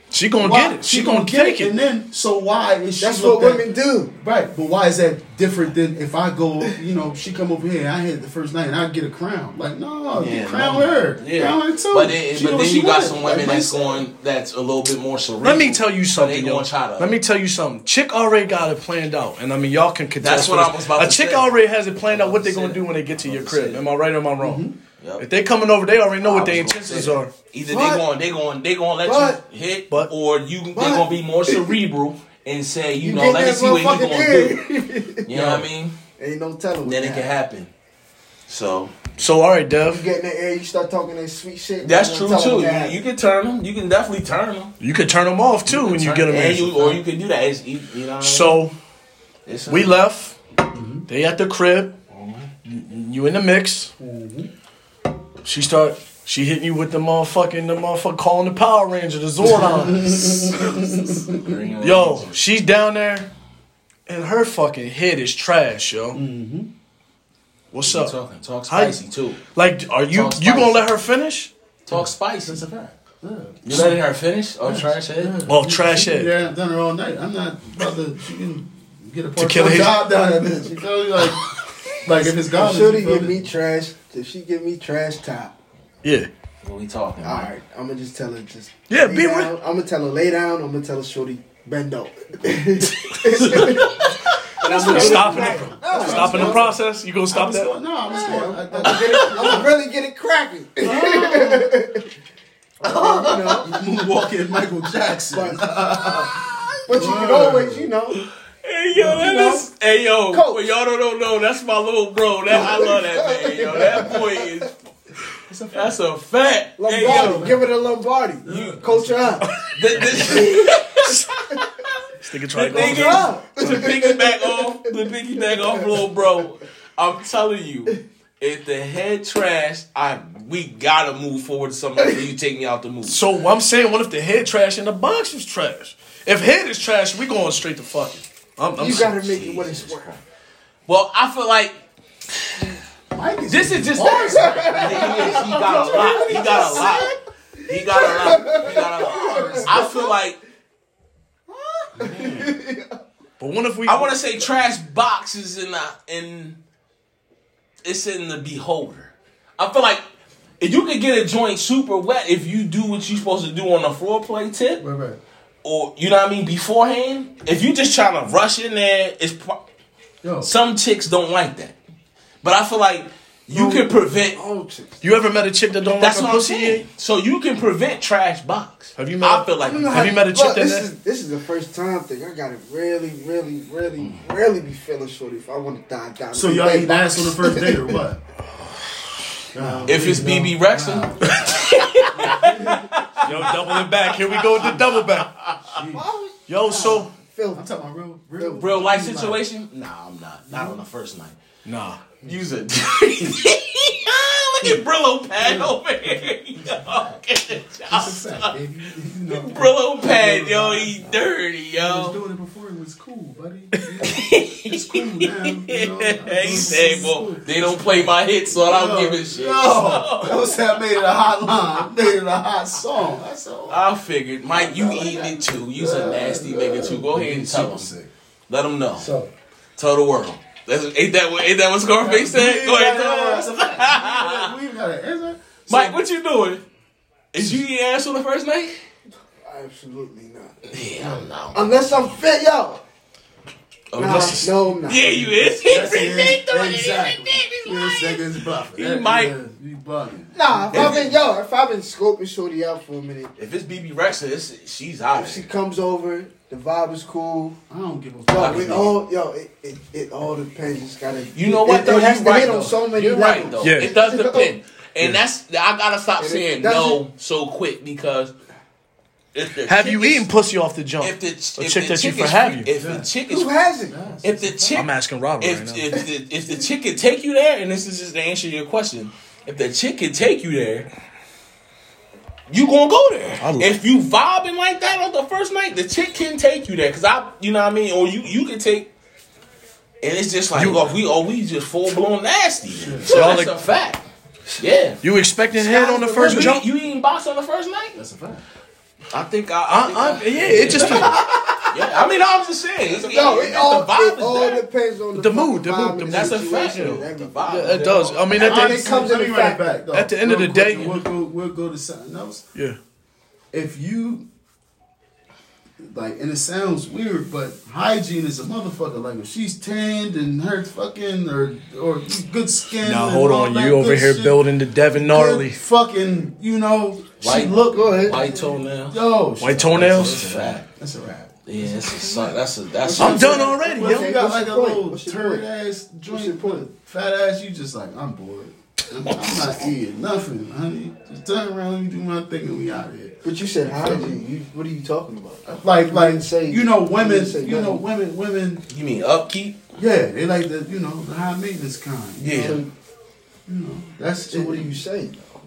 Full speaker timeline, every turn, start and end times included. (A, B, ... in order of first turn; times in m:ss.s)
0:00.1-0:01.7 A
0:00.4-0:03.6 B
0:03.0-0:04.1 C
0:04.2-0:13.8 B
0:10.2-0:17.1 D
0:13.2-0:14.0 C
0:15.4-0:24.6 A
0:20.2-0:21.5 D
0:22.0-0:23.8 D
0:24.4-0:24.8 B
0:25.0-0:25.2 D
0:25.2-0:27.3 A
0:26.2-0:34.6 D
0:27.6-0:28.0 C
0:29.0-0:29.4 C
0:30.7-0:31.8 C
0:33.0-0:35.3 C
0:35.2-0:35.9 D
0:35.3-0:35.6 A
0:36.2-0:37.3 C
0:36.8-0:37.7 D
0:38.5-0:39.1 D
0:39.2-0:40.0 A
0:39.8-0:43.0 C
0:41.8-0:44.7 D
0:44.8-0:47.0 A
0:45.7-0:48.6 D
0:48.2-0:48.7 A
0:49.4-0:50.0 D
0:49.7-0:50.4 A
0:50.7-0:51.0 B
0:51.1-0:51.9 A
0:52.1-0:52.5 D
0:52.6-0:53.9 A
0:54.0-0:54.5 B
0:55.4-1:00.8 A
0:59.4-1:01.6 B
1:00.9-1:02.4 D
1:01.8-1:03.3 A
1:04.1-1:06.2 A
1:06.1-1:06.7 B
1:07.7-1:08.1 A
1:07.8-1:09.4 D
1:08.7-1:09.0 A
1:09.5-1:11.5 A
1:10.1-1:10.9 D
1:11.8-1:12.6 D
1:11.9-1:14.0 B
1:13.6-1:15.3 D
1:14.6-1:21.5 B
1:15.4-1:16.3 A
1:19.4-1:20.0 A
1:22.0-1:23.5 B
1:22.4-1:25.5 C
1:26.0-1:26.3 A
1:26.6-1:27.5 D
1:27.2-1:36.6 C
1:28.9-1:29.5 A
1:33.2-1:35.6 D
1:34.6-1:36.8 B
1:34.6-1:37.7 A
1:37.3-1:39.7 B
1:38.1-1:42.0 C
1:38.8-1:39.6 D
1:40.8-1:41.6 D
1:42.8-1:43.7 C
1:42.8-1:43.7 D
1:43.6-1:46.3 B
1:45.3-1:45.6 C
1:46.8-1:48.3 C
1:46.9-1:47.9 B
1:48.2-1:54.7 D
1:49.0-1:49.7 B
1:50.3-1:50.6 C
1:52.5-1:54.7 C
1:55.5-1:56.0 B
1:55.7-1:57.5 D
1:56.8-1:59.5 C
1:57.0-1:57.7 B
1:58.4-1:59.5 B
1:58.5-1:58.8 D
1:59.4-2:00.3 A
1:59.7-2:01.9 D
2:00.2-2:01.6 C
2:02.2-2:03.4 A
2:02.5-2:13.2 D
2:02.7-2:06.2 C
2:13.0-2:19.2 A
2:18.8-2:20.2 C
2:18.8-2:20.2 D
2:20.9-2:21.7 D
2:22.4-2:22.8 D
2:23.1-2:26.8 B
2:23.5-2:27.1 D
2:24.2-2:30.1 C
2:27.7-2:30.4 D
2:28.7-2:29.9 B
2:31.5-2:33.0 C
2:32.0-2:32.5 D
2:32.0-2:32.4 B
2:33.4-2:34.2 A
2:33.8-2:36.6 D
2:37.8-2:40.0 D
2:40.6-2:44.8 D
2:44.8-2:45.2 B
2:45.6-2:49.6 D
2:50.2-2:50.5 B
2:50.4-2:51.8 D
2:52.4-2:54.4 D
2:53.5-2:55.0 C
2:55.0-2:56.8 A
2:56.0-3:00.2 D
2:59.0-3:00.9 A
2:59.6-3:08.0 C
3:06.3-3:08.2 B
3:09.5-3:12.9 B
3:09.6-3:10.4 C
3:09.9-3:15.6 D
3:12.3-3:12.8 C
3:13.2-3:15.3 A
3:15.6-3:16.1 B
3:15.9-3:17.6 C
3:16.5-3:17.1 A
3:17.5-3:19.4 B
3:18.4-3:18.8 C
3:18.6-3:21.4 D
3:20.5-3:20.8 B
3:21.6-3:22.0 A
3:22.2-3:28.5 D
3:25.4-3:25.8 B
3:26.6-3:27.0 B
3:27.9-3:43.8 B
3:29.3-3:32.2 D
3:34.0-3:40.6 D
3:43.7-3:47.9 D
3:44.5-3:48.1 B
3:48.5-3:49.1 D
3:49.0-3:49.3 B
3:49.8-3:54.5 D
3:52.0-3:56.0 B
3:55.7-3:56.6 D
3:57.3-3:58.7 D
3:59.4-4:00.6 C
4:00.7-4:01.8 D
4:01.0-4:01.3 B
4:01.5-4:02.8 C
4:03.9-4:09.3 D
4:04.0-4:05.2 C
4:05.6-4:11.1 B
4:10.3-4:13.3 C
4:10.7-4:11.1 D
4:13.4-4:15.5 D
4:15.1-4:17.6 C
4:17.7-4:18.9 B
4:18.3-4:24.5 C
4:18.3-4:18.9 D
4:21.3-4:28.3 D
4:23.6-4:24.0 A
4:26.2-4:27.0 C
4:29.3-4:30.2 D
4:29.6-4:32.7 A
4:31.0-4:33.6 D
4:32.8-4:33.1 B
4:33.2-4:33.9 C
4:33.9-4:34.8 B
4:34.2-4:40.9 D
4:34.7-4:35.9 A
4:42.5-4:48.9 D
4:43.4-4:43.8 A
4:50.0-4:54.0 D
4:50.5-4:50.9 A
4:52.7-4:53.2 B
4:53.1-4:53.6 A
4:54.6-4:55.0 D
4:55.0-4:56.6 A
4:55.5-4:56.6 C
4:56.2-4:58.0 D
4:57.9-4:58.4 B
4:59.1-5:01.2 D
4:59.7-5:01.2 A
5:00.8-5:01.5 B
5:01.7-5:04.6 D
5:02.9-5:09.6 C
5:05.1-5:08.8 A
5:06.0-5:08.2 D
5:08.4-5:12.4 B
5:09.9-5:10.9 A
5:10.7-5:11.0 D
5:13.5-5:14.2 B
5:15.8-5:24.4 B
5:22.8-5:25.6 A
5:25.0-5:28.3 B
5:27.2-5:29.0 D
5:27.6-5:28.2 C
5:28.8-5:32.4 B
5:29.4-5:30.3 A
5:29.7-5:30.6 D
5:31.5-5:33.5 D
5:32.8-5:35.4 C
5:33.0-5:44.2 B
5:33.0-5:34.1 A
5:36.1-5:36.7 C
5:39.3-5:39.5 D
5:43.2-5:47.8 C
5:45.4-5:48.6 B
5:48.7-5:49.6 D
5:49.8-5:52.6 B
5:52.2-5:52.6 D
5:52.3-5:52.7 C
5:53.5-5:54.8 B
5:54.3-5:55.2 C